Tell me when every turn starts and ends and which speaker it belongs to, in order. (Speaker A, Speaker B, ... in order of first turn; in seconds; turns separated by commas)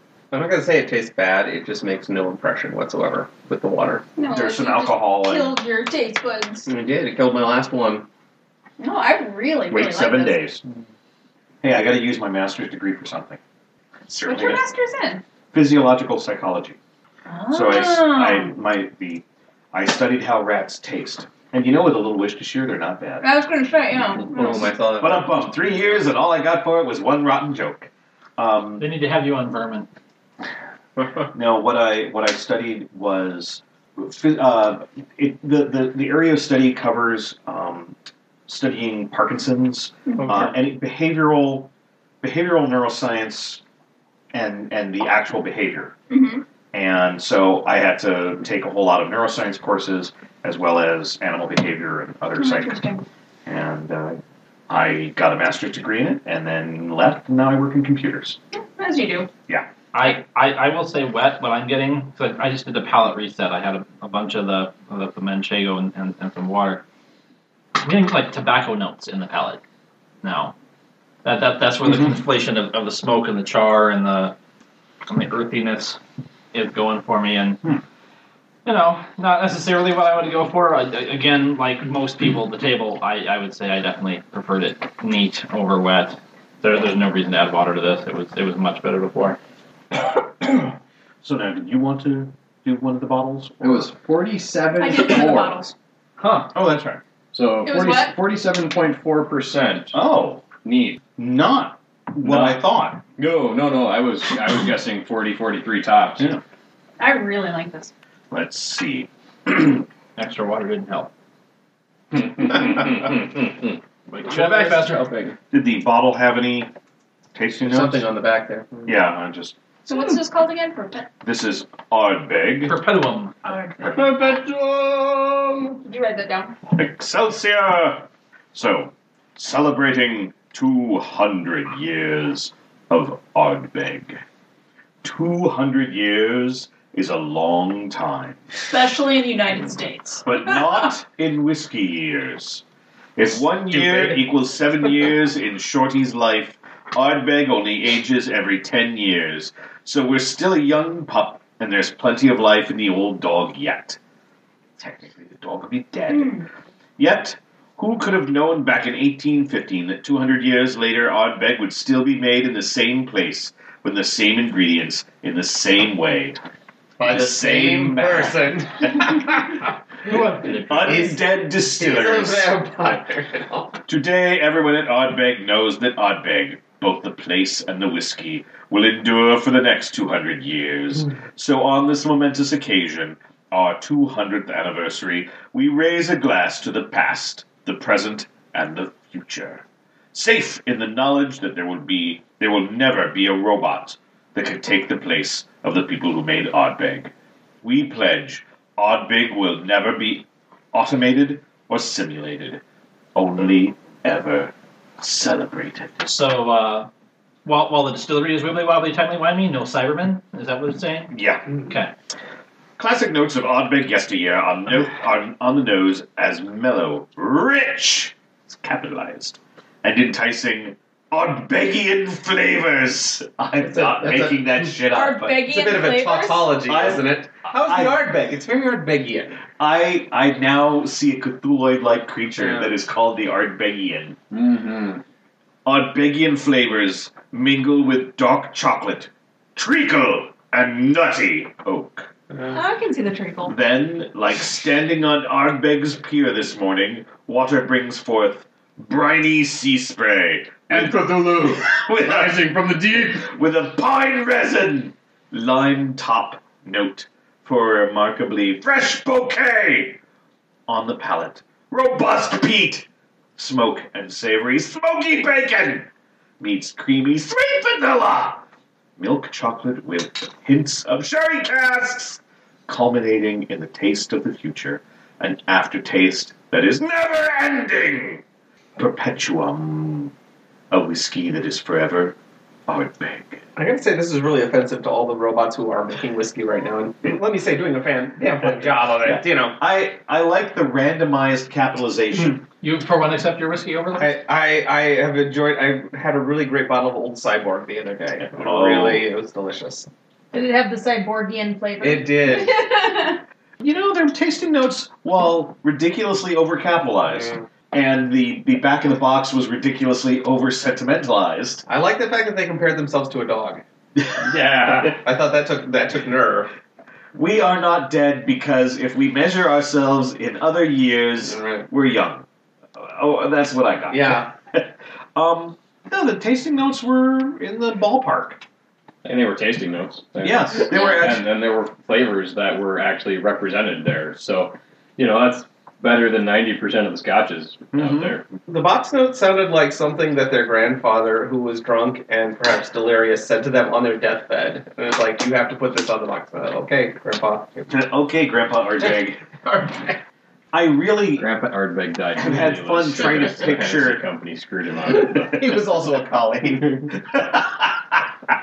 Speaker A: 0.3-4.1, Speaker B: 4.2-6.7, Speaker C: 4.2-5.5, Speaker A: 6.7-8.1, Speaker B: 8.8-10.4, Speaker C: 9.7-10.6, Speaker C: 11.6-13.4, Speaker C: 14.1-14.6, Speaker B: 14.2-15.2, Speaker C: 15.5-16.8, Speaker B: 17.2-18.5, Speaker C: 17.5-23.2, Speaker B: 23.2-24.7, Speaker A: 24.3-25.4, Speaker C: 25.0-28.9, Speaker D: 28.8-29.9, Speaker C: 31.3-37.9, Speaker C: 38.5-41.7, Speaker A: 40.2-40.5, Speaker C: 42.2-43.6, Speaker C: 44.3-45.9, Speaker B: 46.1-46.4, Speaker C: 46.7-52.8, Speaker B: 52.4-53.0, Speaker C: 53.5-58.4, Speaker B: 58.5-59.3, Speaker D: 59.9-66.8, Speaker D: 67.8-69.6, Speaker D: 70.2-70.5, Speaker D: 71.2-74.3, Speaker D: 75.1-76.0, Speaker D: 76.5-77.6, Speaker D: 78.6-89.4, Speaker C: 91.2-93.9, Speaker E: 93.6-95.6, Speaker B: 94.8-95.7, Speaker C: 96.5-97.0, Speaker E: 97.3-101.0, Speaker B: 97.6-98.1, Speaker C: 99.9-100.4, Speaker C: 101.2-103.0, Speaker E: 102.2-102.6, Speaker E: 103.2-106.3, Speaker B: 107.0-107.9, Speaker C: 108.3-109.8, Speaker D: 110.2-111.1, Speaker E: 112.1-115.3, Speaker D: 114.1-115.3, Speaker C: 115.5-116.7, Speaker C: 117.3-118.0, Speaker A: 117.6-119.0, Speaker C: 118.8-119.5, Speaker B: 119.8-121.1, Speaker C: 121.2-122.7, Speaker D: 122.7-123.3, Speaker B: 123.4-124.2, Speaker E: 123.8-125.8, Speaker B: 125.8-126.5, Speaker C: 126.7-134.2, Speaker C: 135.0-138.4, Speaker B: 138.7-140.9, Speaker C: 140.2-142.6, Speaker C: 143.2-154.0, Speaker C: 154.8-156.4, Speaker B: 156.1-156.4, Speaker C: 157.0-166.4, Speaker A: 167.0-169.5, Speaker C: 167.0-168.4, Speaker D: 170.0-171.1, Speaker C: 170.7-172.5, Speaker A: 170.9-171.1, Speaker A: 171.7-173.8, Speaker C: 173.9-202.6, Speaker C: 203.1-206.1, Speaker D: 206.1-206.9, Speaker D: 207.4-211.9, Speaker C: 211.1-211.5, Speaker C: 212.8-225.4, Speaker A: 223.6-224.6, Speaker B: 224.9-226.6, Speaker A: 225.4-229.4, Speaker C: 226.6-228.0, Speaker C: 229.6-234.2, Speaker A: 232.4-232.7, Speaker E: 234.3-235.0, Speaker C: 235.6-242.1, Speaker A: 242.3-242.6, Speaker B: 242.5-243.5, Speaker C: 243.4-252.4, Speaker E: 250.7-253.3, Speaker C: 253.0-260.0, Speaker C: 260.7-265.9, Speaker C: 266.4-268.4, Speaker C: 269.0-278.2, Speaker C: 278.8-280.1, Speaker C: 280.7-282.1, Speaker C: 282.7-283.4, Speaker A: 283.6-289.6, Speaker C: 288.4-292.4, Speaker D: 292.6-294.1, Speaker A: 293.9-299.9, Speaker C: 298.3-299.1, Speaker B: 300.3-303.2, Speaker A: 301.8-302.6, Speaker C: 303.6-311.6, Speaker A: 307.1-307.4, Speaker A: 311.6-313.6, Speaker C: 314.0-314.3, Speaker E: 314.2-314.9, Speaker A: 314.8-316.5, Speaker C: 317.1-322.2, Speaker A: 321.2-321.7, Speaker C: 322.8-328.4, Speaker A: 323.9-324.3, Speaker E: 329.0-338.3, Speaker C: 330.2-331.3, Speaker B: 330.7-331.2, Speaker C: 337.7-338.1, Speaker A: 338.4-347.8, Speaker C: 347.7-349.2, Speaker A: 348.8-350.0, Speaker C: 350.5-351.3, Speaker E: 351.1-355.6, Speaker C: 352.1-354.0, Speaker A: 354.9-356.9, Speaker C: 357.1-358.1